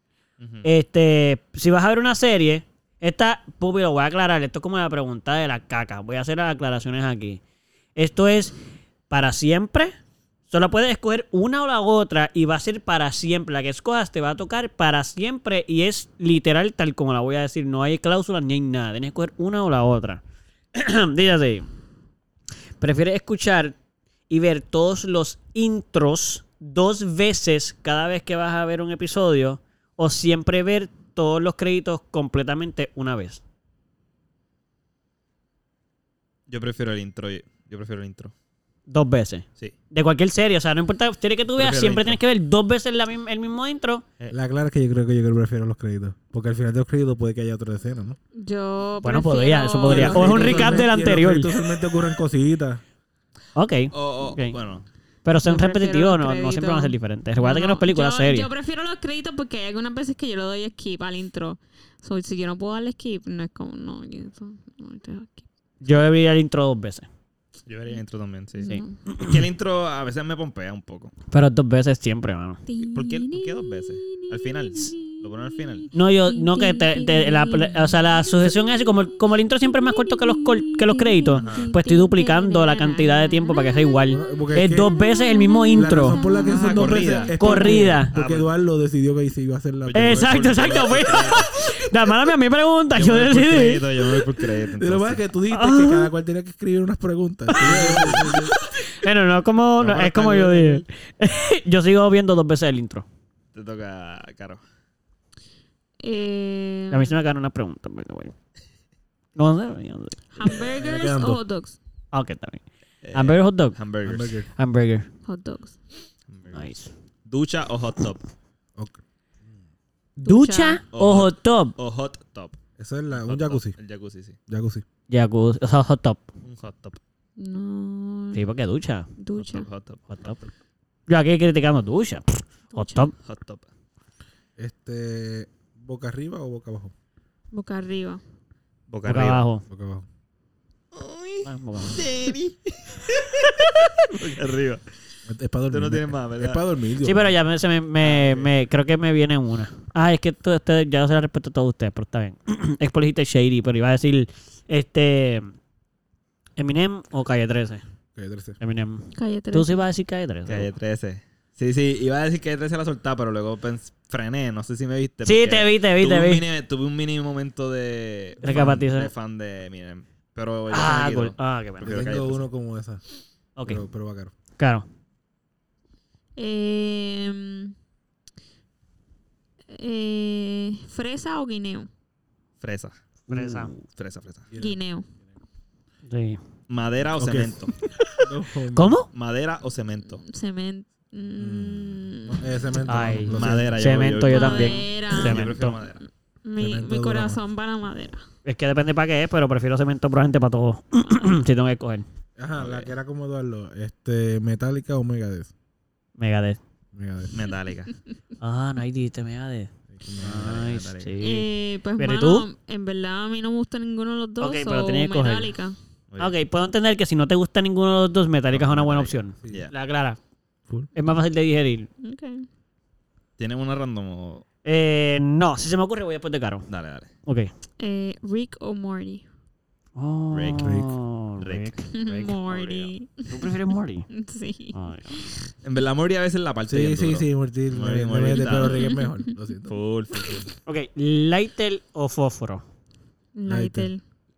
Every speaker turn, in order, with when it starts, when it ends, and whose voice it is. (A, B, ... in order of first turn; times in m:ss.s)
0:00.4-0:00.7 A
0:00.6-0:07.4 B
0:07.9-0:08.6 B
0:09.1-0:09.9 B
0:10.5-0:20.2 B
0:20.7-0:21.7 B
0:22.8-0:23.8 B
0:24.3-0:33.4 B
0:36.5-0:38.3 A
0:38.9-0:44.0 B
0:41.6-0:42.2 A
0:44.3-0:48.2 C
0:48.4-0:50.9 D
0:49.0-0:51.5 B
0:49.8-0:52.8 C
0:53.5-0:54.6 B
0:53.9-0:54.8 A
0:55.2-0:58.5 B
0:55.4-1:05.4 D
1:05.8-1:07.1 B
1:07.7-1:11.1 A
1:08.6-1:09.0 D
1:08.6-1:09.4 B
1:11.3-1:12.6 B
1:12.7-1:24.1 D
1:12.8-1:15.9 A
1:15.9-1:26.2 B
1:21.3-1:21.7 A
1:24.1-1:24.9 C
1:24.8-1:27.8 D
1:25.7-1:30.3 C
1:26.4-1:27.4 A
1:27.4-1:28.1 B
1:28.1-1:28.5 A
1:29.8-1:31.5 A
1:29.9-1:34.2 B
1:32.9-1:35.2 A
1:34.8-1:38.5 C
1:35.5-1:36.1 B
1:37.5-1:43.0 B
1:37.5-1:38.4 A
1:39.8-1:40.8 A
1:43.5-1:44.6 A
1:46.0-1:47.2 D
1:46.9-1:48.3 B
1:49.4-1:50.2 B
1:50.3-1:51.8 D
1:50.6-1:51.4 C
1:52.1-1:53.8 B
1:53.0-1:54.4 A
1:54.0-1:54.5 C
1:54.6-1:55.1 B
1:55.2-1:55.8 D
1:56.3-1:56.7 A
1:56.5-1:56.9 B
1:57.3-1:58.2 A
1:58.8-1:59.6 C
2:00.2-2:01.7 B
2:00.2-2:00.8 D
2:00.9-2:02.6 A
2:02.8-2:03.7 C
2:03.1-2:04.4 A
2:04.5-2:04.8 C
2:05.1-2:06.2 B
2:06.4-2:07.0 A
2:07.4-2:08.4 D
2:08.3-2:09.1 B
2:09.2-2:09.7 D
2:09.4-2:10.1 A
2:10.1-2:10.4 B
2:11.1-2:13.1 B
2:12.7-2:13.1 D
2:13.2-2:13.7 A
2:14.6-2:16.9 C
2:17.5-2:18.2 D
2:18.9-2:19.4 A
2:19.0-2:19.6 B
2:19.7-2:20.0 C
2:20.9-2:24.8 A
2:21.4-2:22.1 B
2:23.6-2:23.9 B
2:25.3-2:27.3 C
2:25.7-2:26.6 A
2:27.0-2:35.5 B
2:28.0-2:28.5 A
2:36.6-2:37.8 B
2:38.1-2:38.6 C
2:38.6-2:40.7 B
2:39.1-2:39.8 D
2:40.5-2:52.4 A
2:45.2-2:46.4 B
2:48.4-2:49.1 B
2:48.5-2:48.8 C
2:50.7-2:52.0 B
2:51.8-2:53.0 C
2:53.6-2:53.8 B
2:53.6-2:54.3 C
2:54.6-2:54.8 B
2:56.4-2:57.7 D
2:59.7-3:01.9 D
3:02.6-3:04.5 A
3:03.3-3:03.7 B
3:04.5-3:04.8 C
3:04.6-3:05.0 D
3:06.1-3:06.4 B
3:06.7-3:07.7 A
3:07.2-3:09.0 C
3:07.9-3:09.1 B
3:09.1-3:10.2 A
3:10.1-3:12.7 D
3:11.4-3:14.1 C
3:12.8-3:15.8 B
3:13.3-3:16.0 A
3:14.2-3:15.9 D
3:16.4-3:18.2 D
3:16.6-3:17.4 C
3:18.4-3:22.0 B
3:22.4-3:25.5 C
3:22.6-3:22.9 A
3:26.2-3:26.6 B
3:26.9-3:27.3 C
3:27.3-3:27.9 A
3:28.4-3:32.5 B
3:29.9-3:30.5 C
3:30.2-3:31.2 A
3:31.2-3:35.8 D
3:34.4-3:35.5 B
3:36.1-3:36.3 A
3:36.2-3:40.2 B
3:38.5-3:39.7 A
3:40.9-3:41.9 B
3:42.0-3:42.5 D
3:43.4-3:44.4 A
3:44.6-3:46.7 B
3:46.7-3:47.1 A
3:47.8-3:49.2 D
3:50.0-3:54.1 B
3:50.3-3:50.7 A
3:50.6-3:50.9 C
3:51.4-3:52.7 A
3:51.9-3:53.5 D
3:54.1-3:55.4 D
3:54.7-3:55.2 B
3:55.6-3:58.9 A
3:56.7-3:59.8 C
3:58.3-3:59.3 D
3:59.7-4:00.5 A
4:00.6-4:02.6 B
4:03.3-4:04.0 D
4:03.4-4:03.9 C